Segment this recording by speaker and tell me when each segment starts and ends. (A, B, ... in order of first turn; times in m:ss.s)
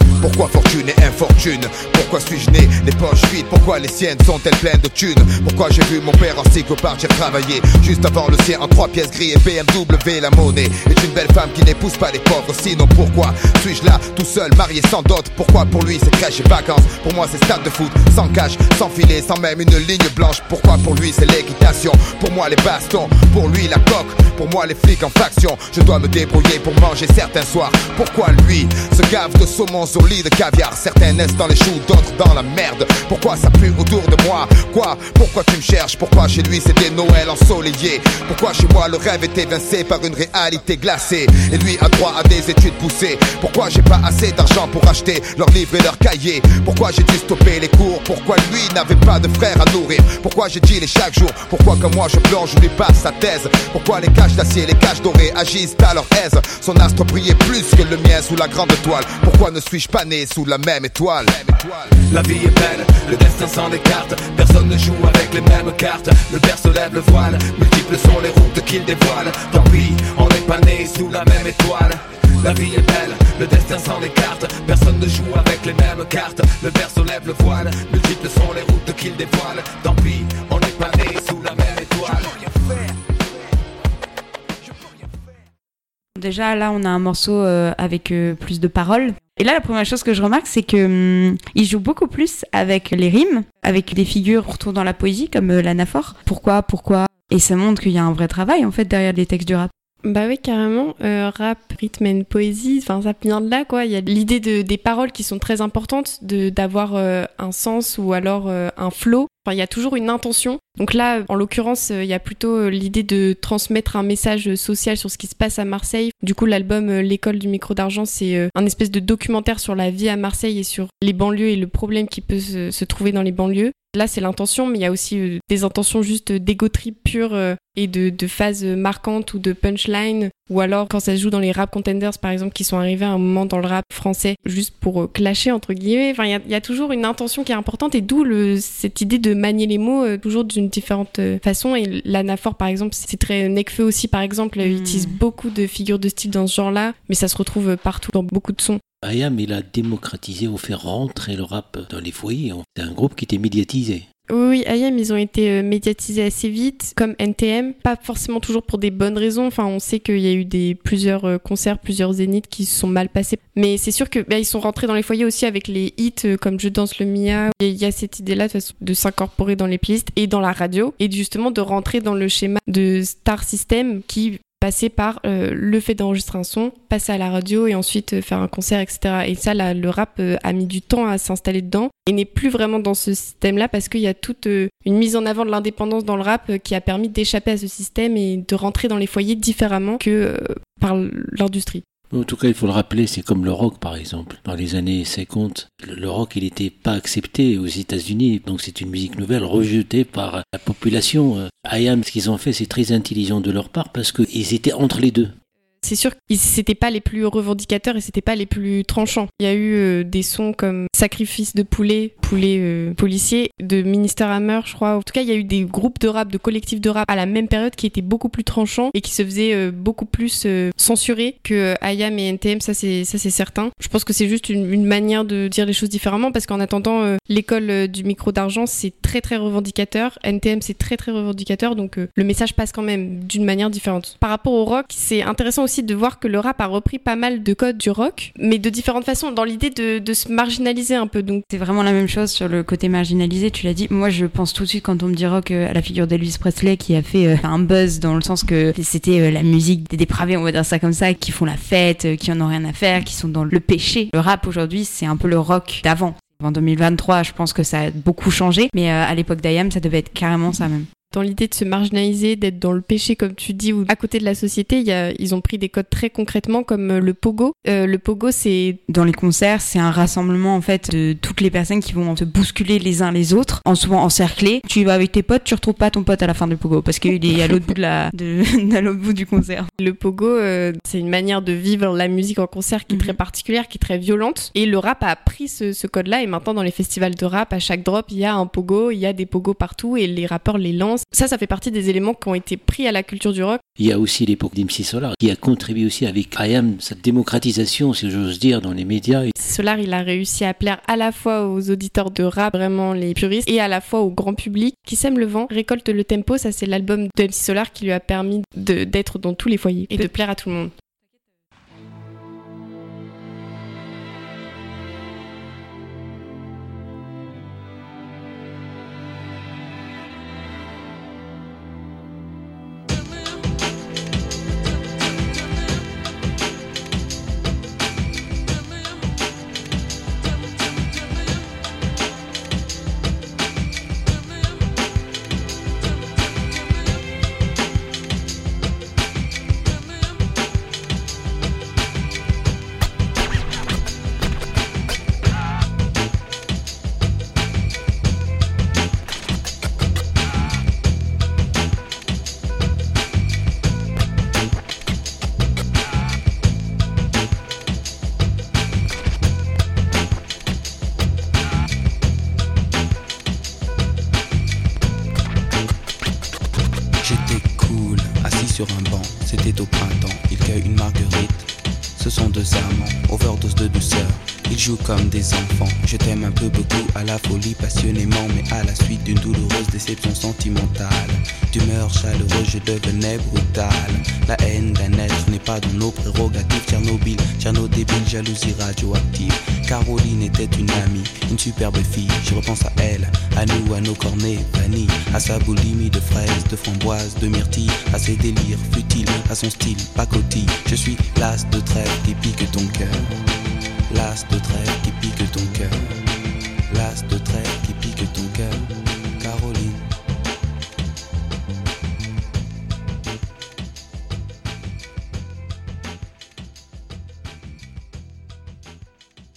0:00.2-1:02.0 A
1:01.9-1:22.3 B
1:26.1-1:39.7 C
1:40.0-2:28.8 D
2:24.6-2:25.2 C
2:29.0-2:34.0 E
2:34.3-3:11.8 D
3:12.1-3:25.3 E
3:25.8-4:01.4 D
4:01.5-4:20.9 C
4:21.1-4:28.8 D
4:28.9-4:39.7 C
4:39.8-4:53.6 D
4:42.9-4:43.2 C
4:53.8-4:59.3 E
4:59.4-5:10.7 D
6:07.0-6:43.1 F
6:43.9-6:45.8 F
6:46.7-6:48.7 F
6:49.2-6:49.9 F